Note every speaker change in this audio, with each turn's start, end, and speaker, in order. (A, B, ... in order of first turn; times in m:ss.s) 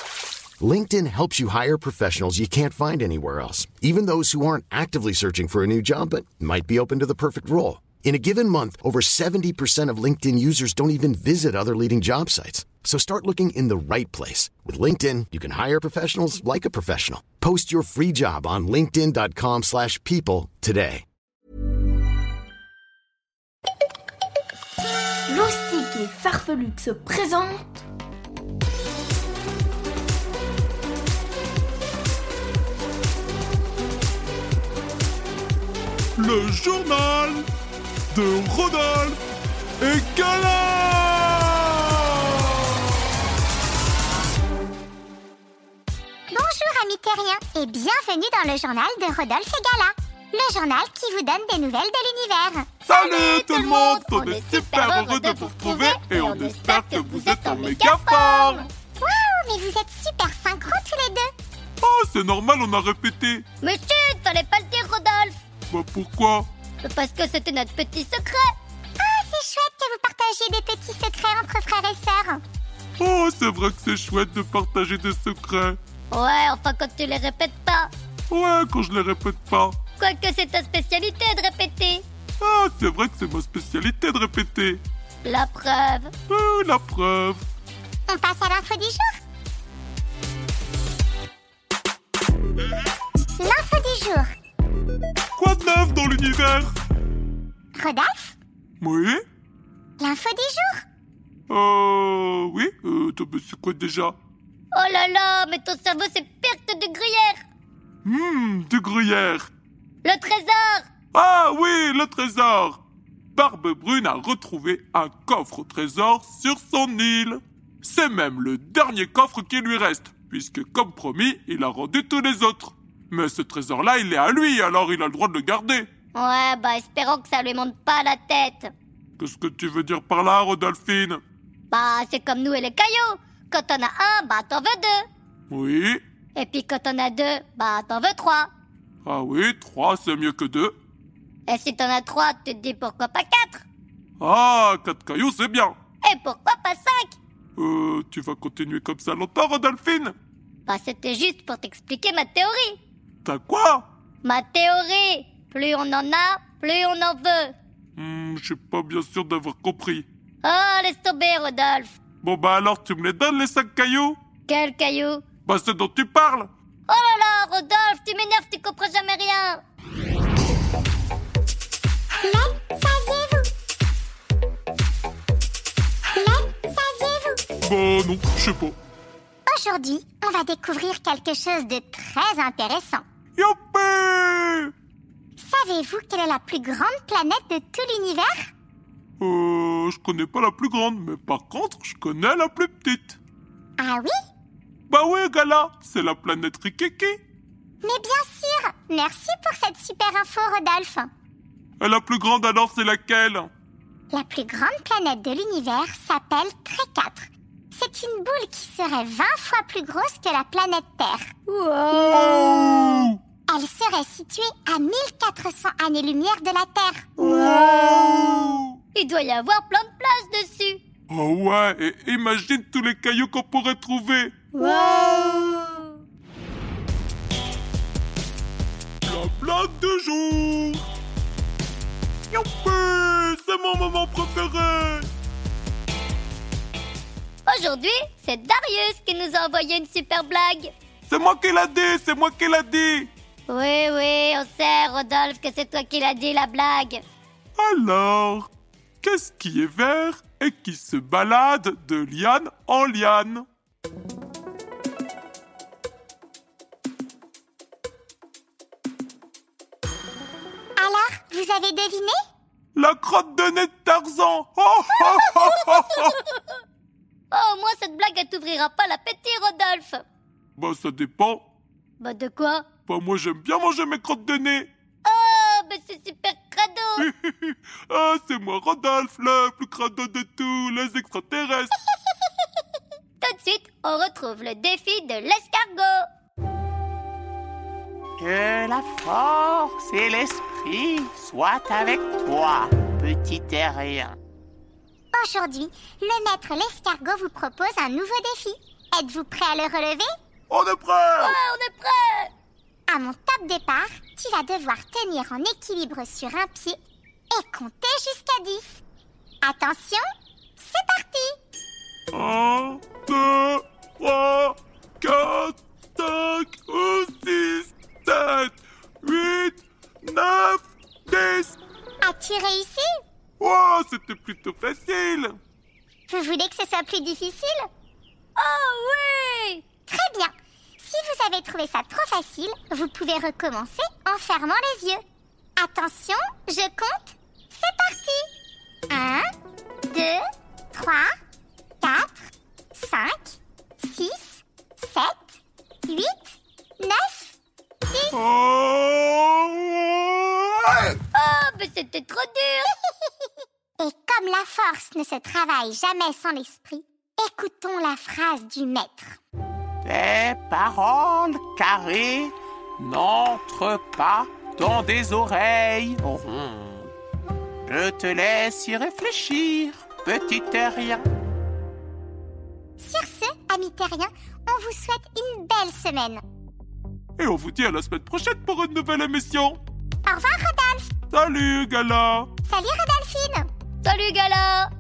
0:00.6-0:21.0 A
0:25.3-0:27.8 B
0:36.2-0:37.5 C
0:38.1-0:39.2 C
0:39.8-0:42.6 C
0:46.3-0:52.8 D
0:52.9-0:58.7 C
0:52.9-0:58.6 E
0:58.6-1:01.3 D
1:01.8-1:03.5 C
1:03.6-1:05.4 E
1:05.7-1:06.5 C
1:06.8-1:08.4 E
1:09.0-1:12.4 D
1:13.0-1:15.8 C
1:16.1-1:17.9 E
1:18.3-1:19.8 C
1:20.0-1:22.0 E
1:22.4-1:24.8 C
1:25.2-1:26.1 E
1:26.3-1:27.4 C
1:28.1-1:29.2 D
1:33.4-1:34.3 D
1:35.4-1:36.7 C
1:37.8-1:38.4 D
1:38.8-1:39.2 C
1:40.0-1:40.8 D
1:41.5-1:44.2 C
1:44.7-1:47.5 E
1:48.0-1:49.5 C
1:50.0-1:50.9 E
1:51.1-1:52.8 C
1:53.3-2:05.9 C
2:06.1-2:08.7 E
2:09.2-2:11.2 C
2:11.7-2:15.1 E
2:15.5-2:16.0 C
2:16.4-2:18.5 E
2:19.0-2:20.7 C
2:21.5-2:23.6 E
2:24.2-2:25.8 C
2:26.0-2:27.2 E
2:27.6-2:30.2 C
2:30.7-2:32.8 E
2:33.2-2:33.8 C
2:34.2-2:37.6 E
2:38.0-2:40.1 C
2:40.4-2:42.0 E
2:42.2-2:44.2 C
2:44.5-2:45.2 E
2:45.5-2:46.5 C
2:46.9-2:49.6 E
2:52.2-2:53.5 D
2:56.2-2:57.4 D
2:57.6-2:58.8 C
2:59.5-3:03.0 D
3:03.4-3:04.7 C
3:05.4-3:08.5 D
3:09.2-3:13.2 C
3:13.8-3:14.2 D
3:14.9-3:17.2 C
3:17.8-3:21.1 D
3:21.8-3:23.5 C
3:24.1-3:31.3 D
3:31.5-3:32.9 E
3:32.0-3:33.2 C
3:33.5-3:37.1 D
3:37.2-3:38.3 E
3:37.2-3:38.8 C
3:38.9-3:40.8 E
3:41.1-3:45.5 C
3:44.5-3:46.0 E
3:49.0-3:50.8 C
3:52.3-3:55.1 C
3:57.5-4:00.7 E
4:01.1-4:03.1 C
4:03.5-4:07.0 E
4:07.6-4:08.5 C
4:09.0-4:13.5 C
4:20.8-4:22.2 D
4:22.8-4:26.2 C
4:25.0-4:26.6 E
4:27.3-4:30.0 E
4:30.6-4:31.4 C
4:32.0-4:32.7 E
4:32.9-4:34.7 C
4:35.0-4:37.1 E
4:37.0-4:41.8 C
4:43.2-4:46.0 E
4:48.2-4:54.2 F
4:55.1-5:00.1 D
5:00.5-5:01.4 C
5:01.2-5:02.3 E
5:02.9-5:06.8 D
5:07.3-5:08.8 D
5:09.4-5:10.0 D
5:10.6-5:11.4 D
5:12.1-5:21.6 C
5:22.0-5:22.9 D
5:23.4-5:25.4 C
5:26.1-5:27.7 D
5:28.4-5:29.6 E
5:29.9-5:35.0 D
5:35.6-5:38.3 D
5:38.9-5:39.3 D
5:39.9-5:40.2 E
5:40.7-5:41.1 D
5:41.8-5:47.4 D
5:48.1-5:51.0 C
5:51.1-5:52.8 E
5:53.8-5:59.2 D
5:59.8-6:06.9 F
6:07.7-6:11.1 F
6:12.8-6:16.2 D
6:17.2-6:19.6 C
6:20.0-6:20.9 D
6:21.1-6:22.3 C
6:22.5-6:23.5 D
6:23.8-6:24.7 E